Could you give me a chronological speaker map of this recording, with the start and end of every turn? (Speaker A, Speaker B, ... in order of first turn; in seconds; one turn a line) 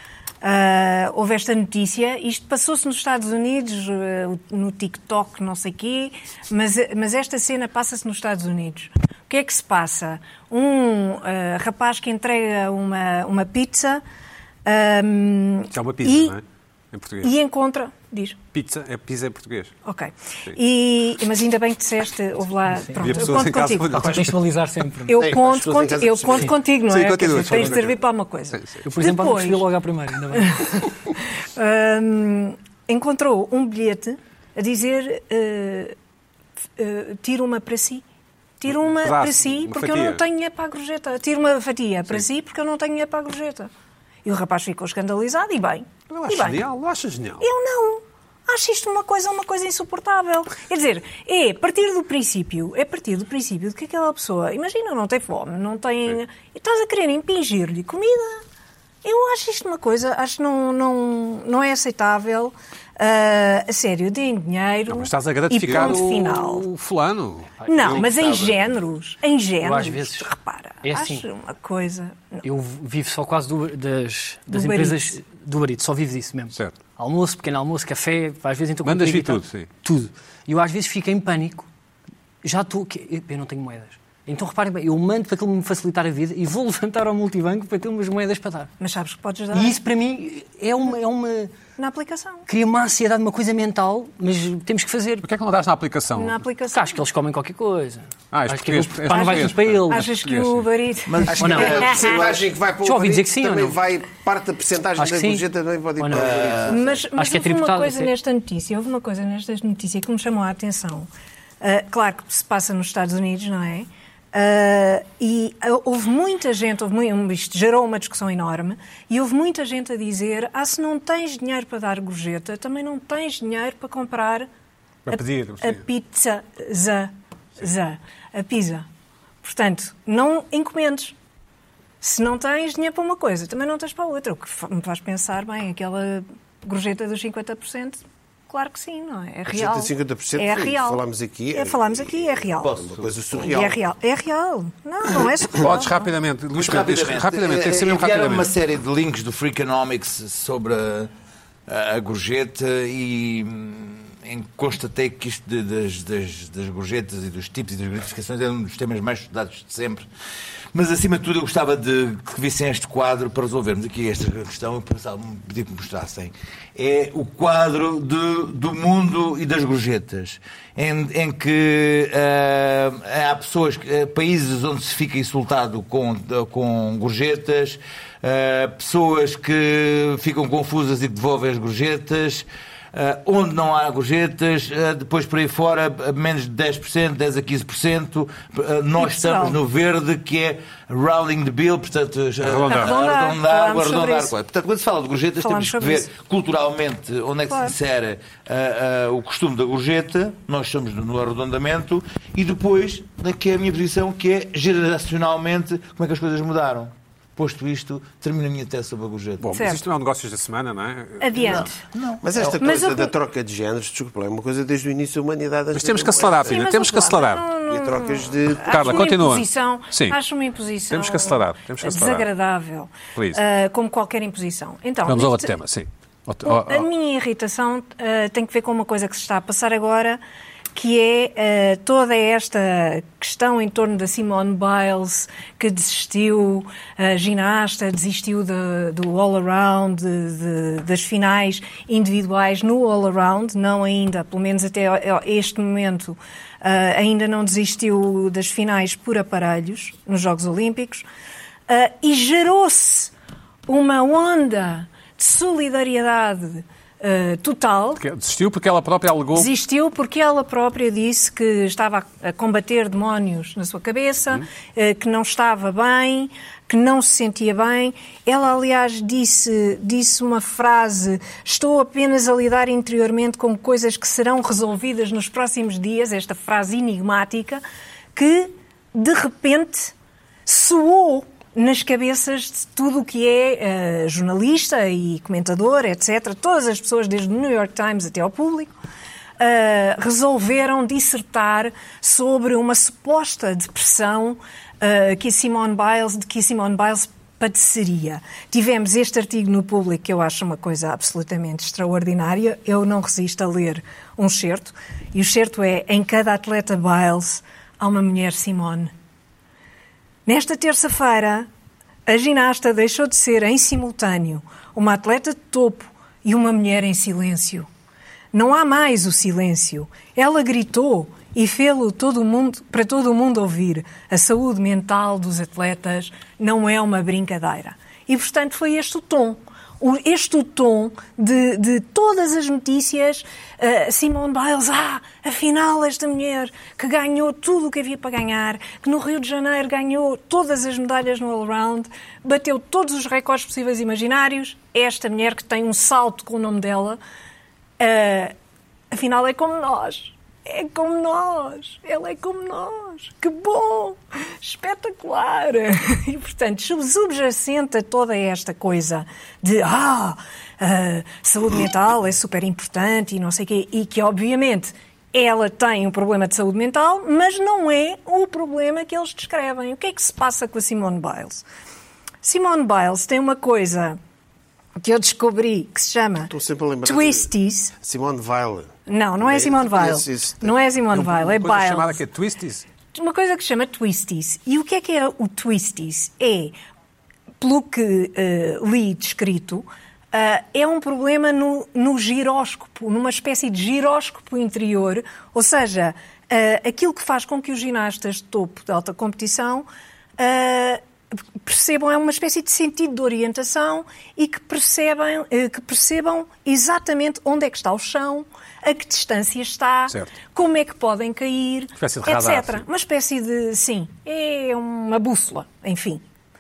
Speaker A: 0.4-14.0
Speaker A: 14.6-16.4
Speaker B: 15.7-17.3
Speaker A: 17.2-18.4
Speaker B: 18.5-19.7
Speaker A: 19.8-24.1
Speaker B: 23.0-24.4
Speaker C: 23.9-25.2
Speaker A: 25.1-29.6
Speaker D: 25.2-26.6
Speaker B: 26.9-28.0
Speaker B: 28.5-28.9
Speaker C: 28.9-30.8
Speaker A: 30.3-35.9
Speaker A: 36.8-38.0
Speaker A: 38.6-43.7
Speaker B: 38.7-40.2
Speaker A: 44.2-46.6
Speaker B: 46.1-47.5
Speaker A: 47.4-58.4
Speaker A: 59.0-66.7
Speaker B: 64.9-67.5
Speaker E: 65.7-66.0
Speaker A: 67.7-72.4
Speaker E: 67.7-68.7
Speaker C: 69.6-70.3
Speaker C: 70.8-71.2
Speaker C: 72.4-81.7
Speaker A: 74.5-75.2
Speaker B: 78.8-79.7
Speaker C: 82.4-88.7
Speaker A: 88.8-89.8
Speaker C: 89.5-91.6
Speaker A: 91.8-92.4
Speaker C: 92.5-95.2
Speaker B: 95.2-96.4
Speaker A: 96.1-97.0
Speaker C: 96.7-100.1
Speaker B: 98.3-100.7
Speaker A: 99.1-101.9
Speaker E: 101.0-102.5
Speaker D: 101.3-107.1
Speaker C: 101.4-101.9
Speaker C: 102.8-103.8
Speaker C: 105.0-105.4
Speaker C: 106.0-106.4
Speaker E: 106.1-106.8
Speaker A: 106.7-111.1
Speaker C: 107.1-108.1
Speaker A: 111.6-124.5
Speaker B: 125.0-125.8
Speaker A: 125.1-128.8
Speaker A: 129.4-131.1
Speaker A: 132.0-141.0
Speaker D: 139.5-143.8
Speaker A: 141.5-142.8
Speaker E: 142.6-143.5
Speaker A: 143.4-146.1
Speaker B: 145.6-148.5
Speaker E: 146.5-151.1
Speaker E: 151.7-160.1
Speaker E: 160.7-209.5
Speaker A: 189.0-189.6
Speaker B: 192.4-192.9
Speaker A: 192.7-194.3
Speaker A: 195.4-196.1
Speaker B: 209.4-211.7
Speaker A: 209.5-209.8
Speaker A: 211.2-211.8
Speaker E: 211.4-212.6
Speaker D: 212.2-216.7
Speaker A: 212.6-213.1
Speaker B: 215.7-217.5
Speaker A: 216.4-225.6
Speaker D: 217.7-219.1
Speaker B: 218.7-220.2
Speaker B: 220.9-222.3
Speaker B: 223.1-223.4
Speaker B: 225.0-226.9
Speaker A: 226.4-230.2
Speaker A: 230.7-251.1
Speaker A: 251.7-253.1
Speaker A: 253.7-258.0
Speaker B: 257.9-259.5
Speaker A: 259.3-277.6
Speaker A: 278.1-279.9
Speaker A: 280.4-288.7
Speaker A: 289.4-308.9
Speaker A: 310.2-311.5
Speaker A: 312.1-317.7
Speaker A: 318.3-347.0
Speaker A: 347.8-348.3
Speaker A: 348.9-371.4
Speaker A: 372.2-374.0
Speaker A: 374.8-376.3
Speaker D: 376.2-380.6
Speaker A: 376.8-377.7
Speaker A: 378.9-382.0
Speaker B: 380.9-382.6
Speaker A: 382.9-386.5
Speaker A: 387.4-399.7
Speaker A: 400.2-400.8
Speaker A: 401.4-416.0
Speaker B: 409.9-410.1
Speaker B: 411.8-412.6